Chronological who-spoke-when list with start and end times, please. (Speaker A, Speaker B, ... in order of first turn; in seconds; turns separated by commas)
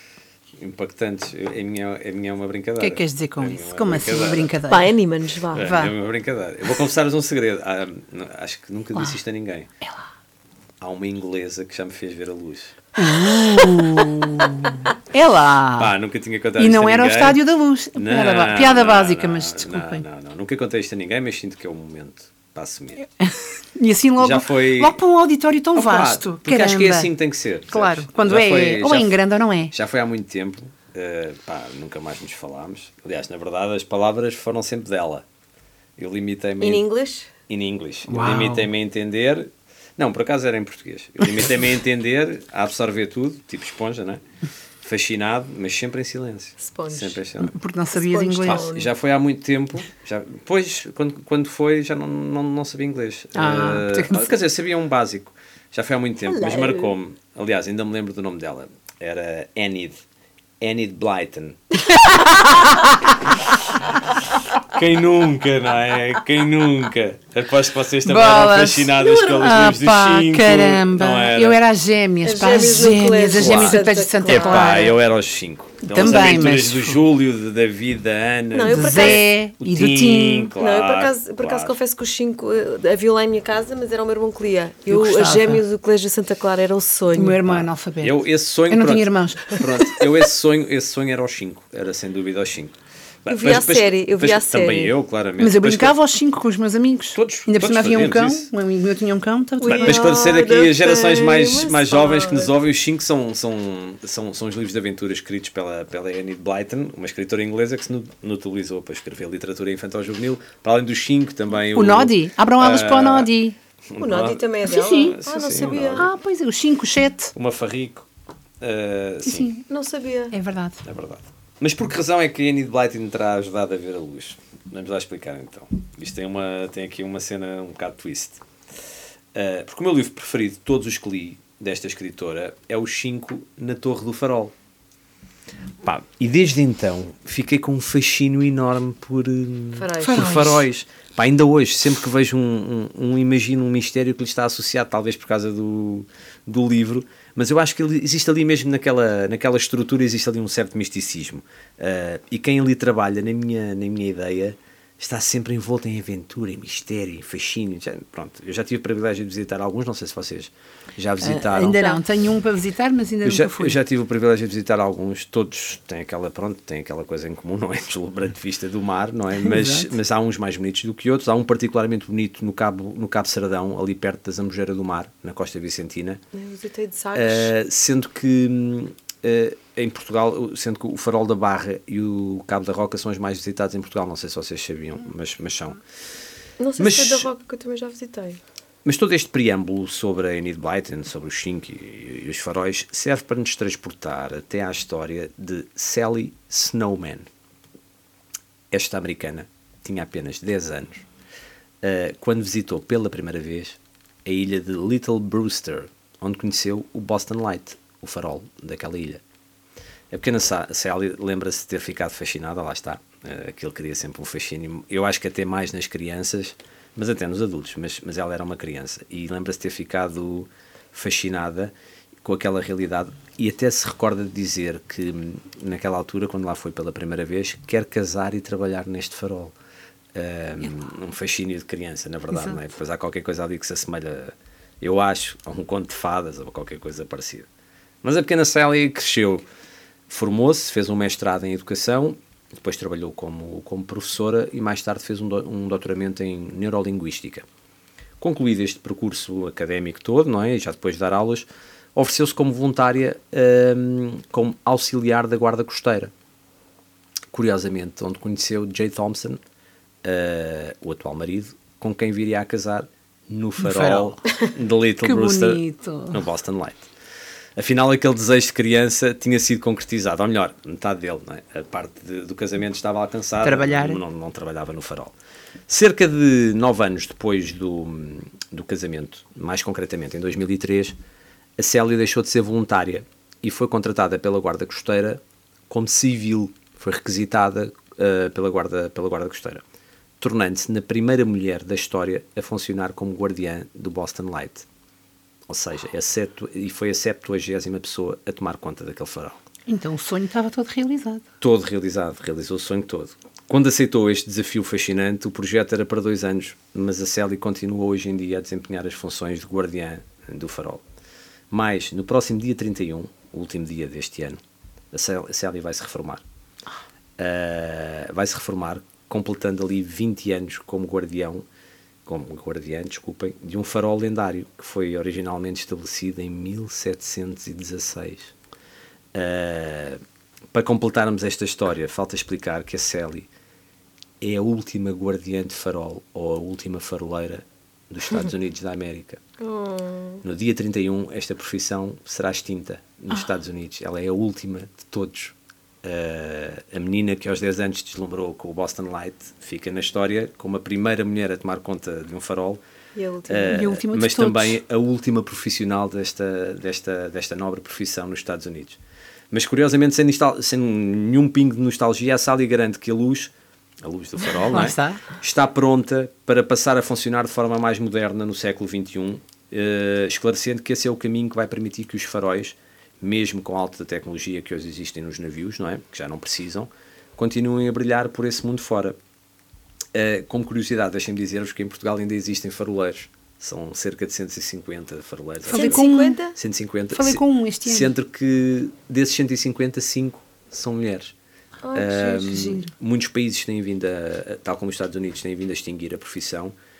Speaker A: 0.6-4.5, Speaker B: 2.8-5.0, Speaker C: 4.7-5.7, Speaker A: 5.5-9.7, Speaker B: 5.5-5.9, Speaker A: 10.8-12.8, Speaker B: 13.0-15.9, Speaker A: 15.8-17.4, Speaker B: 16.6-20.0, Speaker A: 17.9-23.1, Speaker B: 23.2-27.1, Speaker A: 24.2-25.0, Speaker A: 25.7-29.2, Speaker B: 27.7-29.7, Speaker A: 29.7-35.2, Speaker A: 36.0-36.9, Speaker C: 36.6-37.3, Speaker A: 37.5-44.2, Speaker B: 38.1-38.7, Speaker A: 44.8-47.6, Speaker C: 46.6-47.2, Speaker B: 47.4-48.7, Speaker C: 47.9-48.9, Speaker A: 48.4-60.0, Speaker B: 53.4-54.3, Speaker C: 56.3-56.9, Speaker A: 60.6-61.8, Speaker A: 64.6-71.6, Speaker B: 68.1-74.9, Speaker C: 72.2-74.9, Speaker A: 73.3-81.8, Speaker B: 75.8-77.0, Speaker C: 78.5-79.2, Speaker B: 78.7-80.5, Speaker C: 80.6-87.4, Speaker B: 84.9-85.6, Speaker B: 87.1-90.1, Speaker A: 87.5-96.0, Speaker C: 93.3-94.9, Speaker B: 95.4-100.0, Speaker A: 97.2-98.5, Speaker C: 99.6-102.5, Speaker A: 99.7-113.3, Speaker B: 111.7-113.6, Speaker A: 113.9-116.1, Speaker C: 114.0-116.1, Speaker B: 114.7-115.2, Speaker B: 116.0-117.3, Speaker A: 117.3-118.1, Speaker A: 118.6-119.5, Speaker B: 119.2-119.6, Speaker C: 119.7-120.3, Speaker B: 120.3-120.8, Speaker A: 120.8-128.4, Speaker A: 129.3-134.5, Speaker A: 135.8-161.8, Speaker C: 139.8-140.4, Speaker B: 140.0-140.6, Speaker B: 161.2-163.8, Speaker A: 163.2-176.2, Speaker B: 169.4-169.9, Speaker C: 176.3-177.5, Speaker A: 177.1-185.8, Speaker C: 186.6-188.4, Speaker A: 186.8-187.3, Speaker A: 188.8-197.3, Speaker A: 198.7-201.1, Speaker A: 201.8-209.2, Speaker A: 210.1-221.7, Speaker A: 222.2-229.5, Speaker A: 230.1-237.5, Speaker B: 232.3-232.6, Speaker A: 238.0-239.4, Speaker A: 240.1-247.5, Speaker A: 248.2-256.1, Speaker A: 257.3-259.4, Speaker A: 260.0-266.9, Speaker B: 263.6-264.1, Speaker B: 265.0-266.2, Speaker A: 267.6-275.1, Speaker B: 273.4-274.0, Speaker A: 275.7-280.9, Speaker A: 281.6-289.6, Speaker A: 290.2-294.6, Speaker A: 295.5-299.4, Speaker B: 299.7-301.2, Speaker A: 301.4-310.8, Speaker A: 311.5-314.4, Speaker A: 314.9-316.2, Speaker A: 317.2-321.4, Speaker A: 322.1-328.3, Speaker A: 329.1-330.0, Speaker A: 330.5-333.3, Speaker A: 334.2-339.2, Speaker C: 339.4-340.2, Speaker A: 340.2-352.6, Speaker C: 352.9-353.6, Speaker A: 353.3-358.8, Speaker B: 353.5-354.6, Speaker A: 359.3-363.3, Speaker A: 363.8-379.0, Speaker B: 364.5-365.0, Speaker A: 379.9-391.1, Speaker B: 385.5-386.2, Speaker C: 385.5-386.4, Speaker B: 386.9-387.9, Speaker C: 391.6-392.5, Speaker A: 391.7-396.5, Speaker B: 392.3-392.7